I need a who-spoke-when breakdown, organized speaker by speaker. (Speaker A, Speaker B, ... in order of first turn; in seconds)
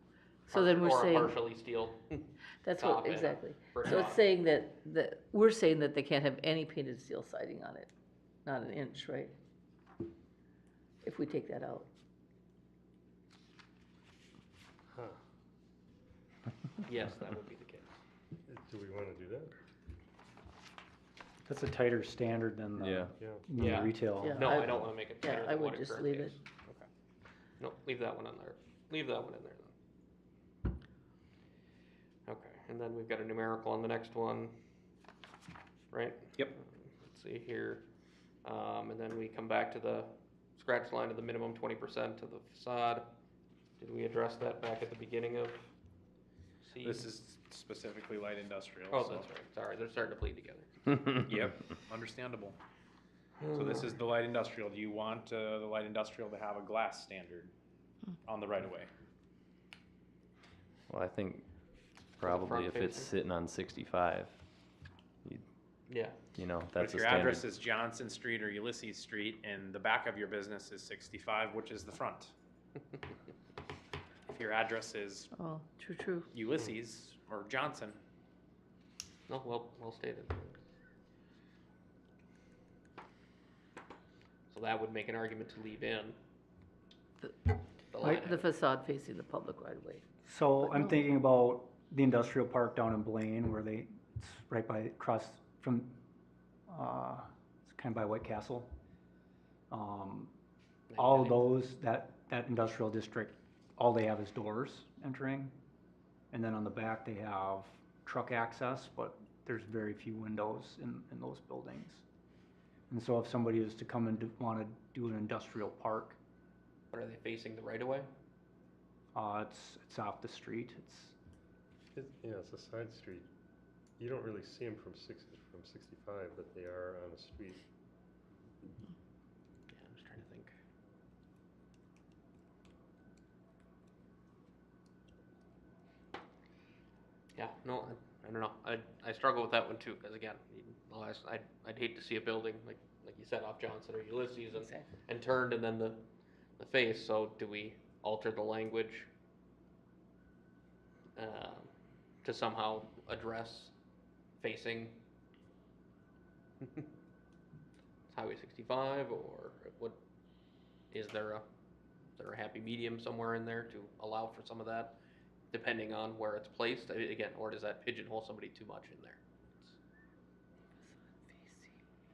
Speaker A: 0.5-1.4, 2.6-7.9, 8.4-9.3, 11.0-11.9, 24.2-26.4, 75.3-76.3, 87.2-90.0, 90.6-91.0, 144.5-144.9, 171.4-171.6
Speaker B: 0.5-4.3, 16.9-17.9, 23.6-26.7, 27.6-29.7, 32.3-34.6, 35.9-37.9, 38.4-43.1, 43.8-45.7, 46.6-47.1, 48.9-50.9, 53.4-54.0, 62.2-63.1, 65.9-66.2, 79.3-80.6, 84.5-86.2, 87.9-88.5, 100.9-101.5, 116.9-118.1, 129.7-130.5, 137.4-149.1, 151.2-151.7, 152.2-153.7, 154.4-155.0, 158.1-160.0, 160.9-161.5, 162.2-165.0, 165.5-169.7
Speaker C: 14.9-15.2, 18.4-19.5, 23.2-23.4, 121.9-123.3, 124.0-127.7
Speaker D: 21.4-24.5, 90.2-96.0, 96.7-98.8, 99.7-100.3, 101.0-105.5, 106.3-112.0, 112.9-116.2, 119.1-121.2
Speaker E: 22.8-23.1, 60.9-61.5, 62.2-64.4, 66.3-67.5
Speaker F: 46.8-49.3, 51.2-52.6, 53.5-57.5, 58.2-58.9, 66.8-72.3, 74.3-75.3, 76.3-78.0